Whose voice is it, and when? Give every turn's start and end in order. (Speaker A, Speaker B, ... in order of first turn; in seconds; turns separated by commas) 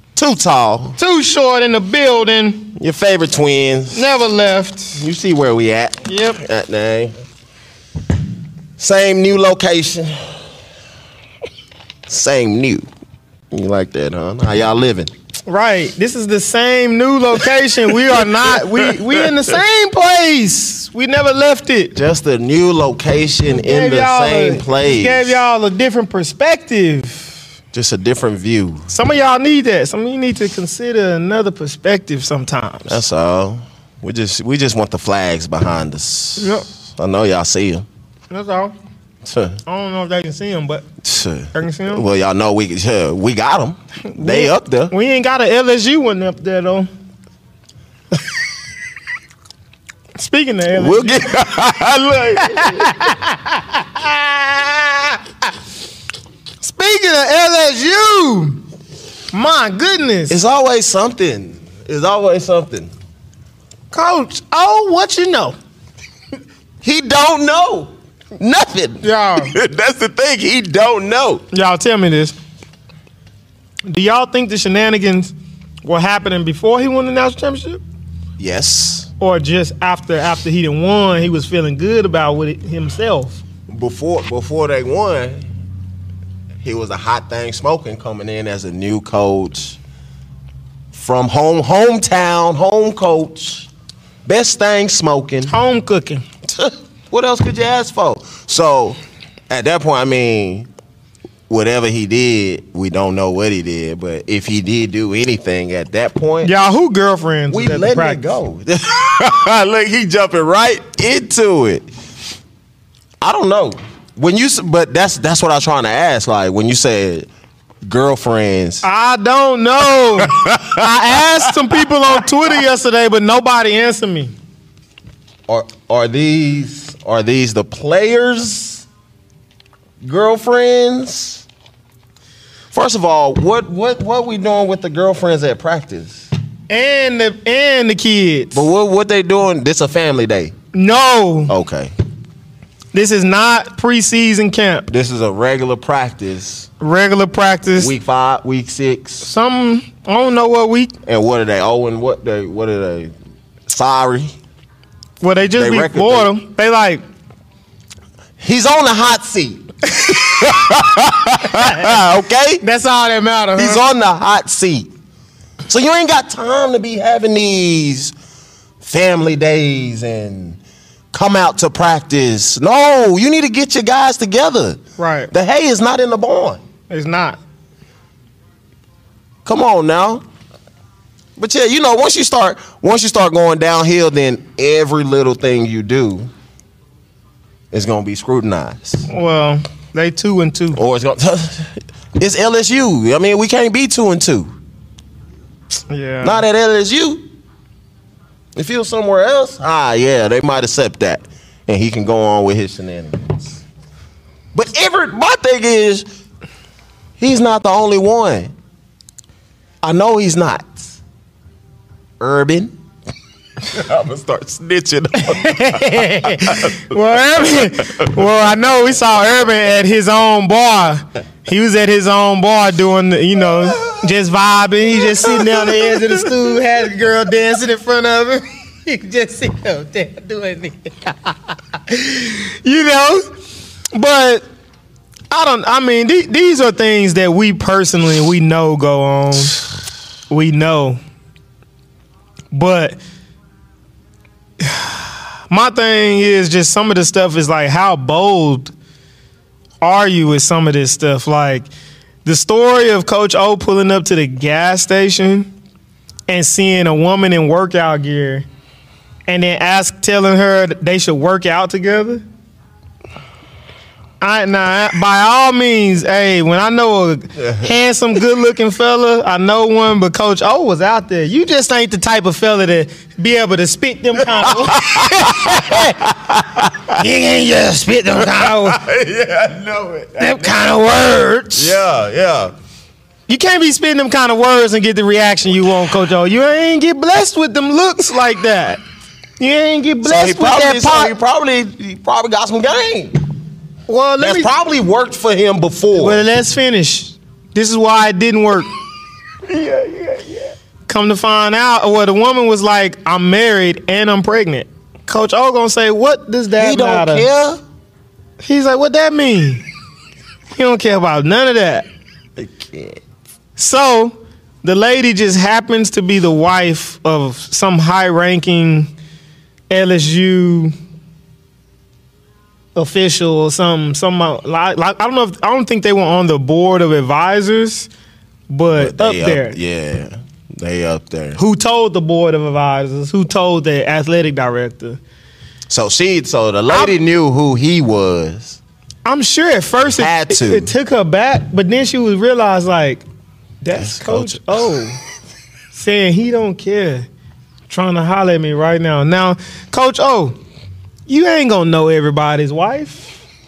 Speaker A: 0.1-1.0, Speaker B: 1.0-2.7, Speaker A: 2.8-4.1, Speaker B: 3.9-5.0, Speaker A: 5.0-7.1, Speaker B: 6.0-6.4, Speaker A: 8.8-10.4, Speaker A: 12.1-12.9, Speaker A: 13.5-15.1, Speaker B: 15.5-21.9, Speaker A: 18.1-19.1, Speaker A: 21.9-25.4, Speaker B: 23.5-27.4, Speaker A: 27.7-28.9, Speaker B: 28.9-33.0, Speaker A: 32.9-37.9, Speaker B: 36.4-36.6, Speaker B: 38.3-38.7, Speaker A: 39.2-39.6, Speaker B: 39.6-40.8, Speaker A: 41.0-44.9, Speaker B: 41.5-42.0, Speaker B: 44.1-46.9, Speaker B: 50.2-51.3, Speaker A: 50.7-53.1, Speaker B: 52.4-55.0, Speaker B: 56.6-58.6, Speaker B: 59.3-60.4, Speaker A: 60.3-62.9, Speaker B: 63.9-65.6, Speaker A: 66.8-71.4, Speaker B: 69.0-69.5, Speaker B: 71.5-72.3, Speaker B: 73.9-75.3, Speaker B: 75.8-77.8, Speaker A: 78.4-79.1, Speaker B: 79.2-83.4, Speaker A: 83.7-85.5, Speaker A: 86.6-89.8, Speaker A: 90.9-93.7, Speaker A: 94.2-95.5, Speaker B: 95.5-96.2, Speaker A: 96.4-100.7, Speaker A: 101.5-106.5, Speaker B: 106.4-108.2, Speaker A: 107.5-111.9, Speaker A: 113.2-117.3, Speaker A: 117.8-118.8, Speaker B: 118.8-124.3, Speaker A: 120.2-121.5, Speaker A: 125.5-128.8, Speaker A: 130.0-131.4, Speaker A: 132.7-136.3, Speaker B: 136.7-138.6, Speaker A: 138.5-140.5, Speaker B: 140.7-141.5, Speaker A: 141.5-141.9, Speaker B: 142.9-144.9, Speaker A: 144.9-146.7, Speaker B: 146.8-147.9, Speaker A: 147.8-149.3, Speaker B: 149.2-150.9, Speaker A: 151.1-153.1, Speaker A: 153.7-154.3, Speaker B: 155.2-157.0, Speaker A: 155.6-156.3, Speaker A: 158.4-162.6, Speaker B: 160.0-160.5, Speaker B: 161.4-162.0, Speaker B: 162.6-163.8, Speaker A: 163.6-164.9, Speaker A: 165.7-168.1, Speaker A: 168.8-170.6, Speaker A: 171.1-174.8, Speaker B: 175.0-175.3, Speaker A: 175.3-176.6, Speaker B: 176.9-177.4, Speaker A: 179.4-180.2, Speaker A: 181.4-186.3, Speaker A: 187.7-189.1, Speaker B: 189.1-190.8, Speaker A: 190.7-194.5, Speaker B: 195.9-196.4, Speaker A: 196.2-197.2, Speaker A: 198.6-203.6, Speaker A: 204.5-206.1, Speaker A: 207.2-208.5, Speaker A: 209.8-210.8, Speaker A: 212.2-212.7, Speaker A: 213.6-216.9, Speaker B: 215.2-233.2, Speaker A: 223.5-224.0, Speaker A: 225.0-226.6, Speaker B: 233.9-234.4, Speaker B: 235.3-239.6, Speaker B: 240.3-241.0, Speaker B: 242.5-243.0, Speaker B: 244.6-248.7, Speaker B: 249.8-251.7, Speaker B: 252.2-255.5, Speaker B: 256.3-258.4, Speaker B: 259.3-262.2, Speaker B: 264.2-276.1, Speaker A: 267.4-267.7, Speaker A: 274.2-276.9, Speaker B: 276.7-278.8, Speaker A: 278.1-280.8, Speaker B: 280.2-281.8, Speaker A: 281.6-282.5, Speaker B: 283.3-288.8, Speaker B: 289.4-291.1, Speaker A: 290.0-293.2, Speaker B: 293.9-294.5, Speaker A: 294.2-296.2, Speaker B: 295.9-298.7, Speaker A: 299.5-300.3, Speaker B: 300.9-307.2, Speaker A: 306.6-307.6, Speaker B: 308.4-309.6, Speaker B: 310.5-311.9, Speaker A: 312.4-313.0, Speaker B: 313.6-318.9, Speaker B: 319.7-320.7, Speaker B: 322.7-327.9, Speaker B: 328.5-329.6, Speaker A: 328.7-331.4, Speaker B: 331.4-335.0, Speaker A: 335.7-338.6, Speaker B: 336.7-336.9, Speaker B: 339.0-343.0, Speaker A: 339.9-340.7, Speaker B: 343.6-345.0, Speaker A: 343.7-344.5, Speaker B: 345.7-347.1, Speaker B: 347.7-350.4, Speaker B: 351.1-353.1